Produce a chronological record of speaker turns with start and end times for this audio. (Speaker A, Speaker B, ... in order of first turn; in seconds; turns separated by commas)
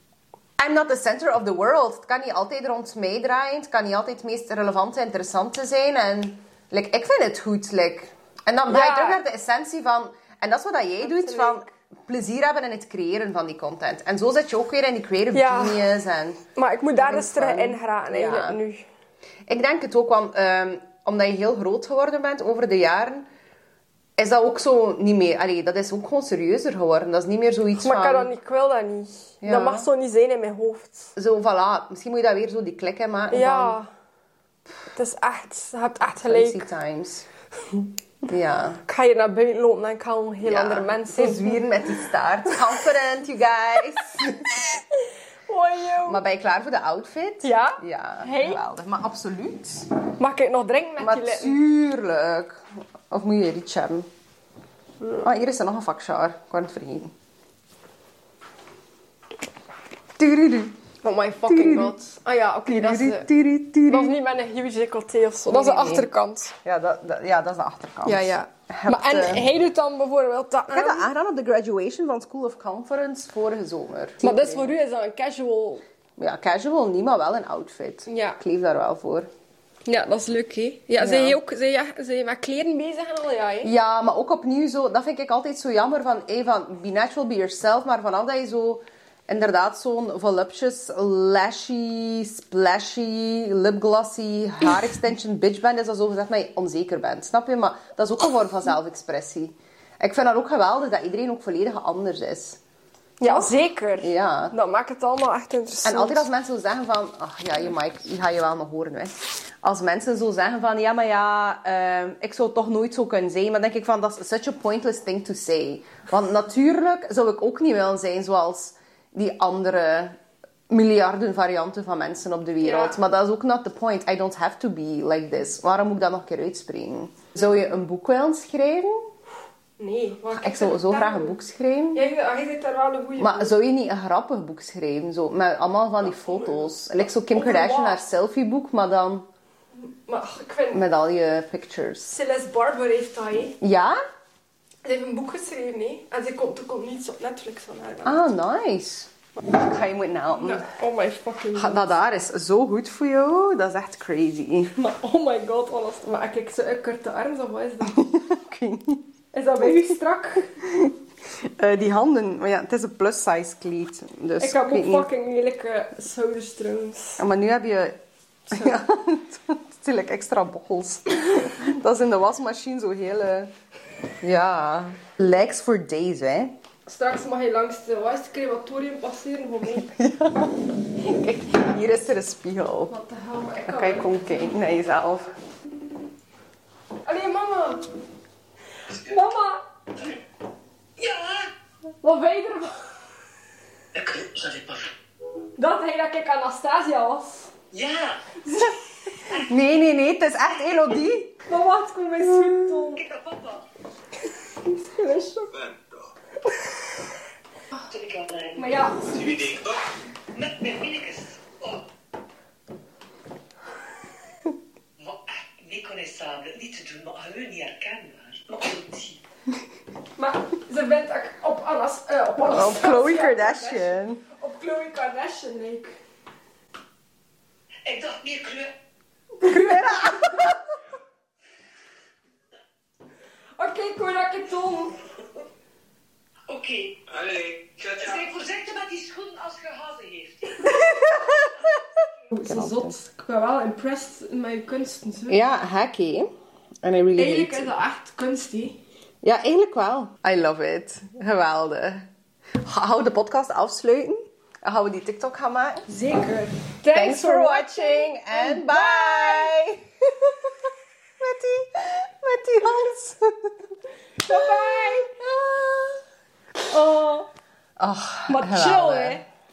Speaker A: 0.6-16.4, Speaker B: 8.7-9.2, Speaker B: 11.0-11.6, Speaker B: 15.3-15.9, Speaker B: 16.5-18.8, Speaker A: 16.9-18.6, Speaker A: 19.5-23.3, Speaker A: 24.2-28.3, Speaker B: 27.8-31.1, Speaker A: 29.4-29.9, Speaker A: 31.1-33.8, Speaker B: 33.3-33.9, Speaker B: 34.9-36.6, Speaker A: 36.2-37.3, Speaker A: 38.3-38.8, Speaker B: 38.9-42.6, Speaker A: 40.4-44.6, Speaker B: 45.5-46.2, Speaker A: 46.0-49.9, Speaker B: 47.4-48.6, Speaker B: 50.2-51.6, Speaker A: 51.0-54.1, Speaker A: 55.2-57.1, Speaker A: 60.2-60.8, Speaker B: 61.0-63.3, Speaker A: 61.5-61.9, Speaker A: 62.7-64.1, Speaker B: 63.9-66.5, Speaker A: 65.5-66.1, Speaker A: 66.6-69.5, Speaker B: 68.0-71.0, Speaker A: 70.7-74.8, Speaker B: 74.2-75.8, Speaker A: 76.2-79.3, Speaker B: 78.1-78.4, Speaker B: 79.8-83.7, Speaker A: 81.0-81.4, Speaker A: 83.6-102.6, Speaker B: 103.2-106.3, Speaker A: 103.2-104.5, Speaker A: 105.8-120.2, Speaker A: 120.7-129.1, Speaker B: 122.6-123.0, Speaker B: 129.8-131.4, Speaker A: 130.3-132.0, Speaker B: 131.9-133.5, Speaker A: 133.2-139.3, Speaker B: 137.3-138.0, Speaker B: 139.8-140.8, Speaker A: 140.7-142.1, Speaker B: 142.1-143.6, Speaker A: 143.6-144.0, Speaker B: 144.8-148.2, Speaker A: 148.0-150.7, Speaker B: 150.3-151.9, Speaker A: 151.5-154.7, Speaker B: 154.7-158.0, Speaker A: 157.9-159.1, Speaker B: 159.3-160.5, Speaker A: 159.6-159.9, Speaker A: 160.6-160.9, Speaker A: 161.6-165.1, Speaker B: 164.4-167.2, Speaker A: 167.2-168.0, Speaker A: 168.5-173.5, Speaker A: 174.2-176.5, Speaker B: 176.9-179.9, Speaker A: 179.7-182.9, Speaker B: 182.9-184.5, Speaker A: 183.6-185.3, Speaker B: 187.0-187.9, Speaker B: 188.9-189.6, Speaker C: 191.0-191.5, Speaker B: 192.0-192.8, Speaker C: 193.9-194.9, Speaker B: 195.6-197.5, Speaker C: 197.7-198.4, Speaker A: 199.3-201.3, Speaker B: 201.5-203.0, Speaker A: 202.2-202.6, Speaker C: 202.9-203.6, Speaker B: 204.5-205.7, Speaker C: 207.9-209.8, Speaker B: 208.6-209.6, Speaker C: 210.3-211.8, Speaker C: 215.0-219.2, Speaker B: 220.2-225.9, Speaker A: 222.4-224.2, Speaker C: 227.8-228.7, Speaker B: 229.4-230.5, Speaker A: 229.4-230.6, Speaker B: 233.6-235.0, Speaker C: 236.5-240.8, Speaker A: 240.6-241.7, Speaker B: 242.3-245.4, Speaker A: 242.4-243.0, Speaker A: 245.3-246.3, Speaker A: 246.8-247.7, Speaker B: 247.2-248.8, Speaker A: 249.2-252.1, Speaker A: 252.6-255.9, Speaker B: 255.9-259.5, Speaker A: 256.9-260.5, Speaker A: 261.2-263.6, Speaker B: 264.2-265.1, Speaker A: 264.3-266.0, Speaker B: 266.7-267.3, Speaker A: 267.8-269.2, Speaker B: 268.3-269.2